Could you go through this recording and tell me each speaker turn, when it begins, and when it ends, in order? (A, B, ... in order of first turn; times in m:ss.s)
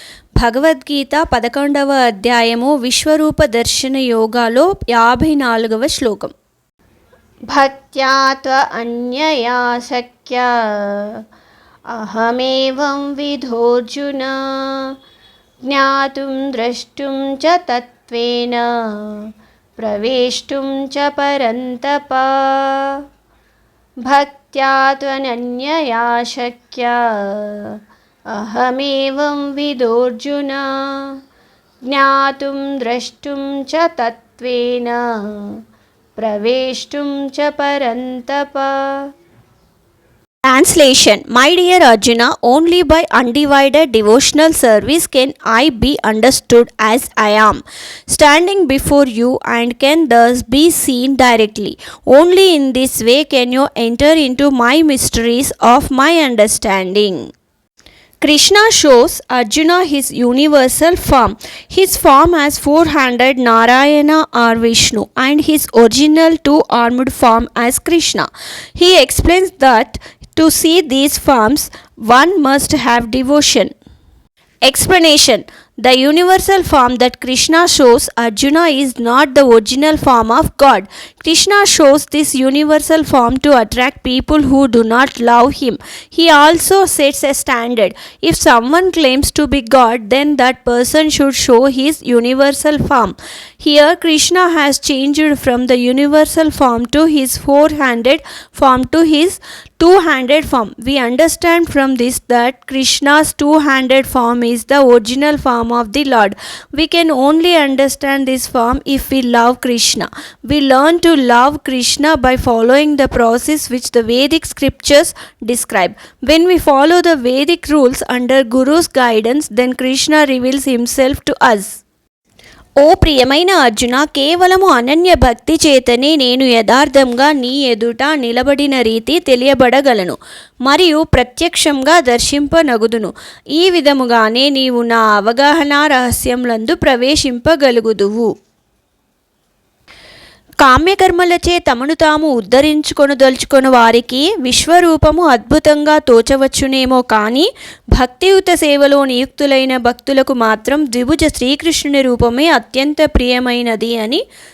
0:00.4-0:06.3 A
0:07.5-0:11.2 A
0:11.9-0:14.9 A
0:15.6-0:19.2 A
0:19.8-0:23.0 A
0:24.0-0:27.8 A
0:28.3-0:31.2 A
0:31.9-0:35.6 A
0:36.2-0:39.0 A
0:40.5-0:57.3 A
0:58.2-1:13.7 A
1:14.6-2:01.8 A
2:02.8-2:18.3 A
2:20.6-2:34.2 A